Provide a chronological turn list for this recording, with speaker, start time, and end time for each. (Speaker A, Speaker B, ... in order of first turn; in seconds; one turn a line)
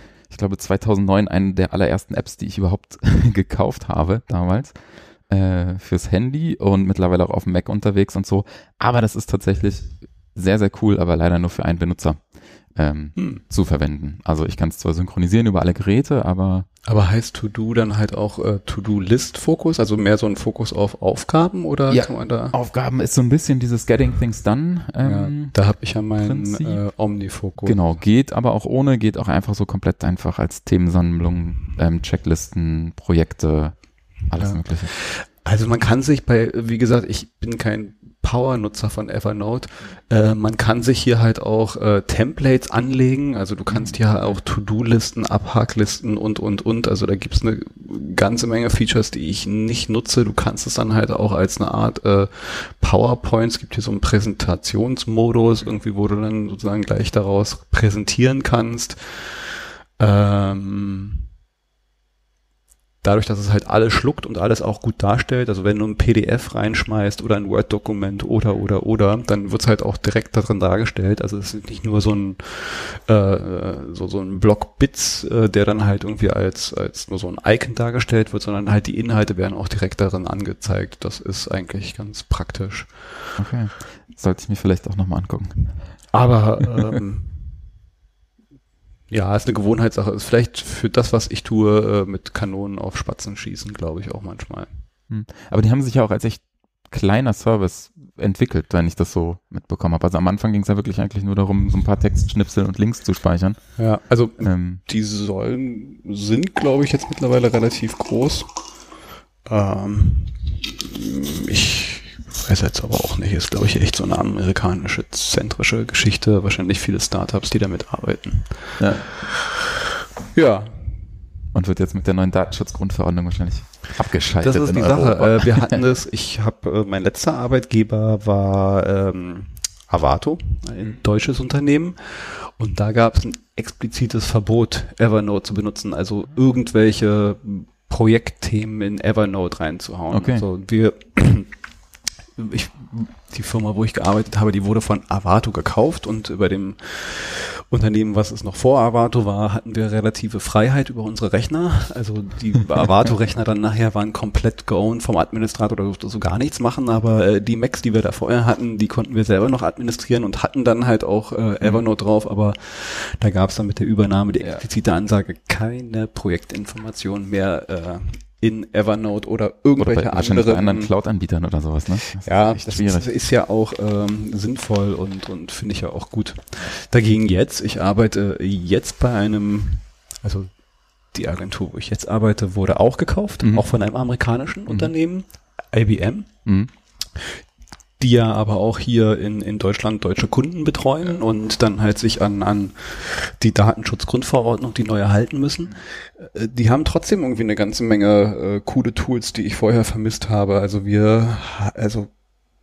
Speaker A: 0.3-4.7
Speaker A: 5.3-12.2
Speaker A: 12.7-16.7
Speaker B: 13.2-13.4
Speaker B: 16.9-22.5
Speaker A: 21.9-25.5
Speaker B: 25.0-27.8
Speaker A: 26.2-26.8
Speaker A: 27.6-33.8
Speaker A: 34.3-34.9
Speaker B: 34.4-59.3
Speaker A: 43.7-44.0
Speaker B: 60.0-61.2
Speaker B: 63.0-83.1
Speaker A: 83.4-85.7
Speaker B: 86.1-87.3
Speaker B: 89.1-94.7
Speaker A: 95.1-103.7
Speaker B: 103.8-108.5
Speaker A: 104.4-104.8
Speaker B: 109.5-119.7
Speaker A: 118.8-119.1
Speaker B: 120.3-121.0
Speaker A: 121.5-125.8
Speaker B: 124.4-141.5
Speaker A: 140.1-140.4
Speaker B: 142.3-170.9
Speaker A: 169.8-173.1
Speaker B: 172.1-180.5
Speaker B: 181.1-186.3
Speaker B: 188.0-202.1